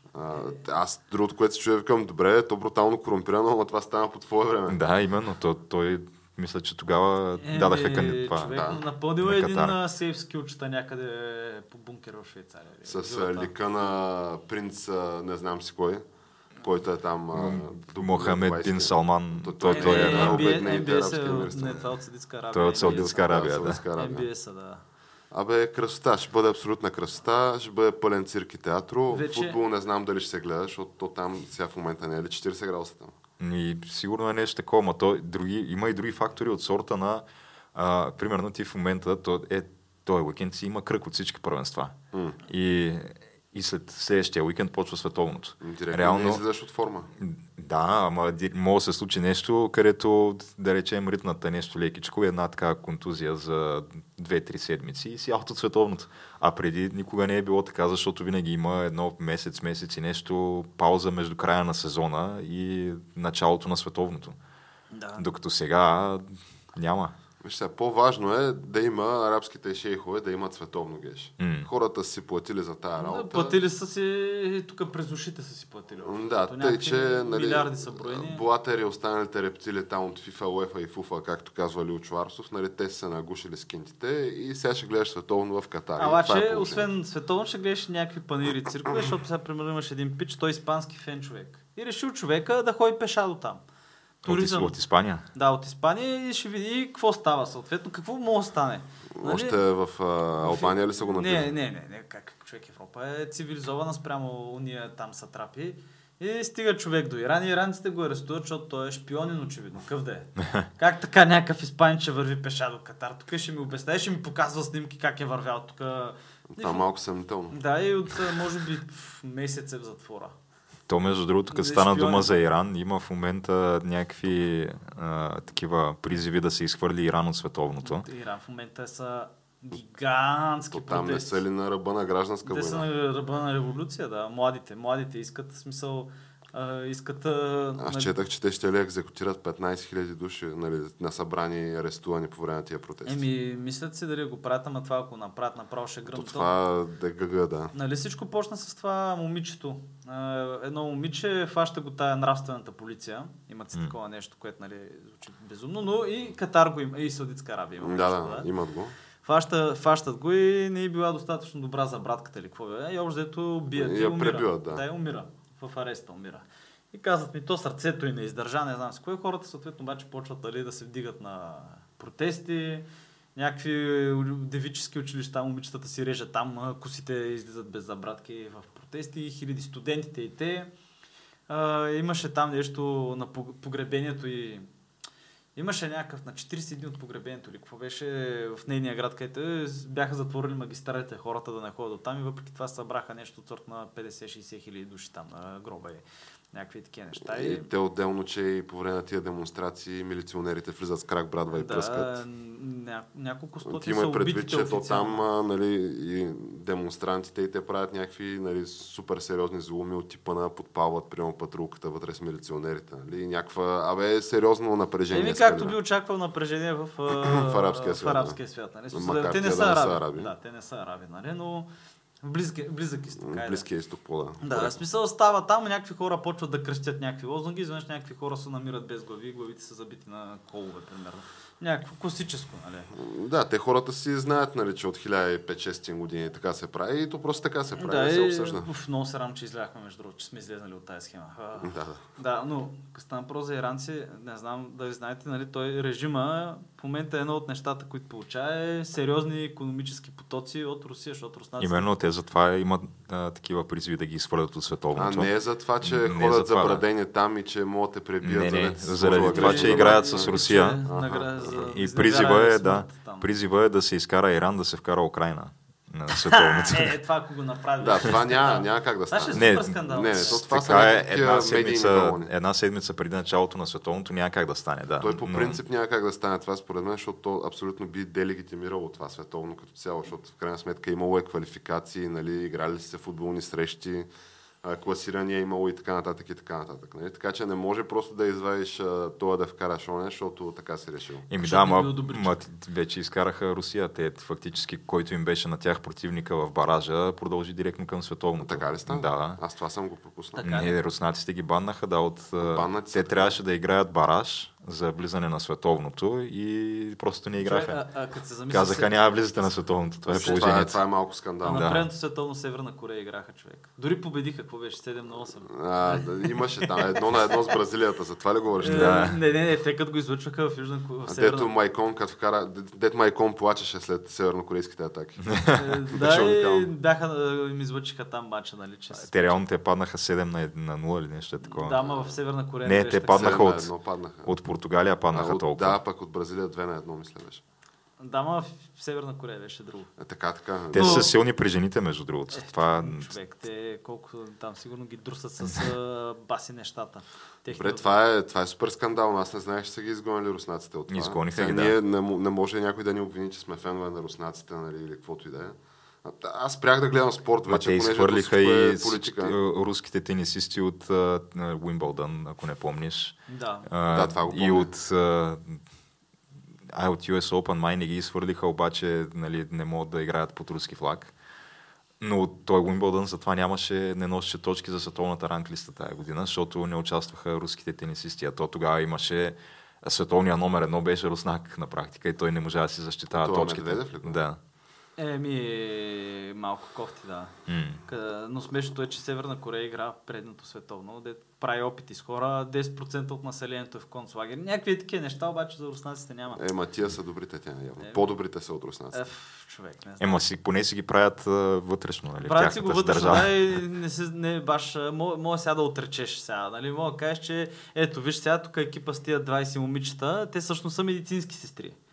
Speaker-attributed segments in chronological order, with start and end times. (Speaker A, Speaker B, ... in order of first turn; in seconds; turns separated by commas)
Speaker A: 0.1-4.8, Speaker B: 4.7-8.5, Speaker C: 7.4-13.5, Speaker A: 8.4-8.8, Speaker B: 9.2-9.8, Speaker A: 12.9-16.0, Speaker A: 16.6-21.9, Speaker B: 17.3-20.6, Speaker C: 19.7-23.3, Speaker B: 22.5-23.8, Speaker A: 22.8-24.3, Speaker C: 23.9-24.8, Speaker A: 25.3-33.1, Speaker C: 29.1-29.6, Speaker B: 33.4-42.0, Speaker A: 42.1-42.4, Speaker B: 42.5-46.4, Speaker A: 45.6-47.1, Speaker B: 47.2-64.4, Speaker C: 64.9-65.2, Speaker B: 65.2-67.2, Speaker A: 67.4-73.6, Speaker B: 71.4-71.7, Speaker C: 73.0-78.4, Speaker A: 76.0-86.9, Speaker C: 86.0-93.6, Speaker B: 94.2-95.2, Speaker C: 94.2-94.8, Speaker C: 95.3-99.6, Speaker A: 99.2-101.5, Speaker C: 100.4-116.9, Speaker A: 116.6-117.6, Speaker C: 117.5-120.3, Speaker B: 120.9-128.1, Speaker C: 121.5-122.4, Speaker C: 127.8-131.4, Speaker A: 130.7-132.9, Speaker C: 132.4-138.1, Speaker A: 137.8-143.2, Speaker C: 143.1-146.5, Speaker A: 146.1-147.7, Speaker C: 147.7-158.5, Speaker A: 157.8-158.9, Speaker C: 159.2-172.8, Speaker A: 163.7-164.8, Speaker C: 173.4-180.7, Speaker C: 181.5-184.7, Speaker C: 185.6-197.7, Speaker A: 197.2-202.2, Speaker C: 201.5-205.2, Speaker A: 203.7-215.8, Speaker C: 215.1-221.7, Speaker A: 217.1-218.4, Speaker A: 218.9-220.3, Speaker C: 222.2-223.6, Speaker A: 223.2-224.8, Speaker C: 224.4-232.9, Speaker A: 232.9-238.7, Speaker C: 237.8-251.9, Speaker A: 241.6-242.0, Speaker B: 251.6-256.8, Speaker A: 254.9-261.6, Speaker B: 258.2-260.8, Speaker C: 259.1-263.3, Speaker B: 261.5-266.9, Speaker C: 266.1-270.4, Speaker A: 267.8-272.3, Speaker B: 269.4-275.6, Speaker A: 275.0-284.1, Speaker A: 284.6-291.3, Speaker B: 291.3-299.4, Speaker C: 291.4-292.4, Speaker A: 298.4-300.5, Speaker C: 300.4-300.8, Speaker B: 300.4-307.8, Speaker A: 302.4-303.4, Speaker C: 307.4-309.5, Speaker B: 308.5-310.8, Speaker C: 310.1-310.5, Speaker A: 310.1-311.7, Speaker C: 311.4-316.7, Speaker B: 311.5-311.9, Speaker A: 315.5-319.1, Speaker C: 318.6-321.5, Speaker B: 318.6-319.2, Speaker A: 321.1-326.7, Speaker B: 325.3-325.6, Speaker C: 325.5-329.4, Speaker B: 329.0-331.8, Speaker C: 331.4-333.5, Speaker A: 331.8-332.1, Speaker B: 332.6-333.7, Speaker A: 333.1-334.3, Speaker B: 334.2-335.8, Speaker A: 335.1-337.4, Speaker C: 338.0-339.9, Speaker A: 340.0-341.1, Speaker B: 340.7-343.1, Speaker C: 340.7-341.1, Speaker C: 342.3-347.9, Speaker A: 347.5-359.4, Speaker B: 350.9-351.8, Speaker B: 357.5-365.6, Speaker C: 363.3-363.7, Speaker A: 363.9-364.7, Speaker B: 366.7-371.1, Speaker B: 372.0-384.4, Speaker A: 383.1-384.2, Speaker C: 385.0-387.3, Speaker B: 387.5-387.8, Speaker C: 387.9-396.4, Speaker A: 396.4-399.0, Speaker C: 397.8-398.1, Speaker C: 398.9-400.2, Speaker B: 400.0-403.6, Speaker C: 402.2-411.8